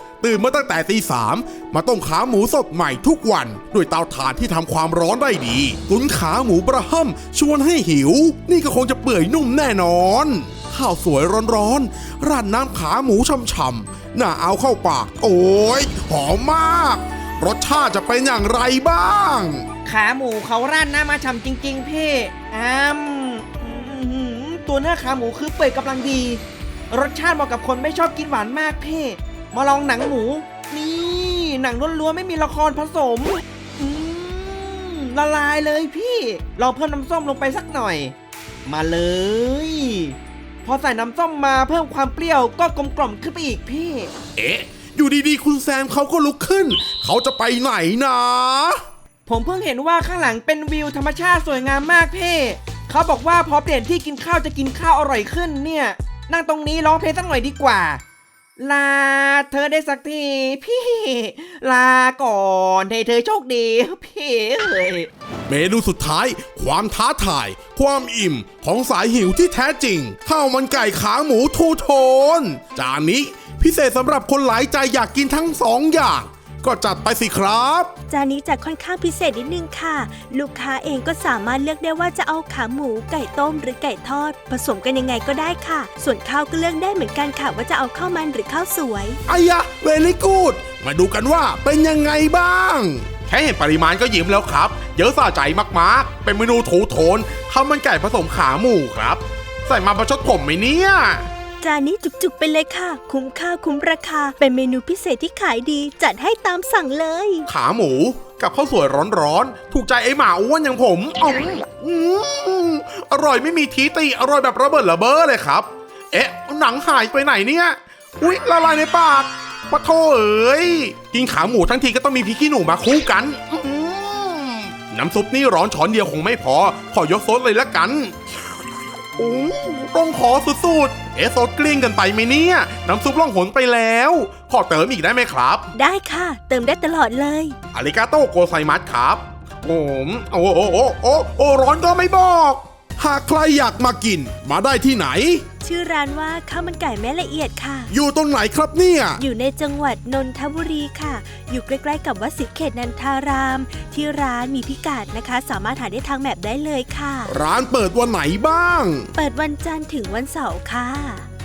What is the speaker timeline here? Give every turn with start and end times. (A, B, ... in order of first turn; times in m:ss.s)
0:00.2-0:19.6 A
0:19.8-0:38.1 B
0:38.6-0:44.1 B
0:44.4-0:48.8 A
0:49.2-0:58.0 B
0:58.6-1:05.1 B
1:05.5-1:17.9 A
1:18.1-1:29.2 C
1:29.3-1:41.3 A
1:41.6-1:47.5 C
1:47.5-2:08.2 A
2:09.2-2:15.7 A
2:15.7-2:17.6 C
2:17.7-2:25.4 A
2:25.6-2:27.9 C
2:27.9-2:29.2 A
2:29.2-2:37.3 C
2:37.3-2:39.1 A
2:39.2-2:41.3 C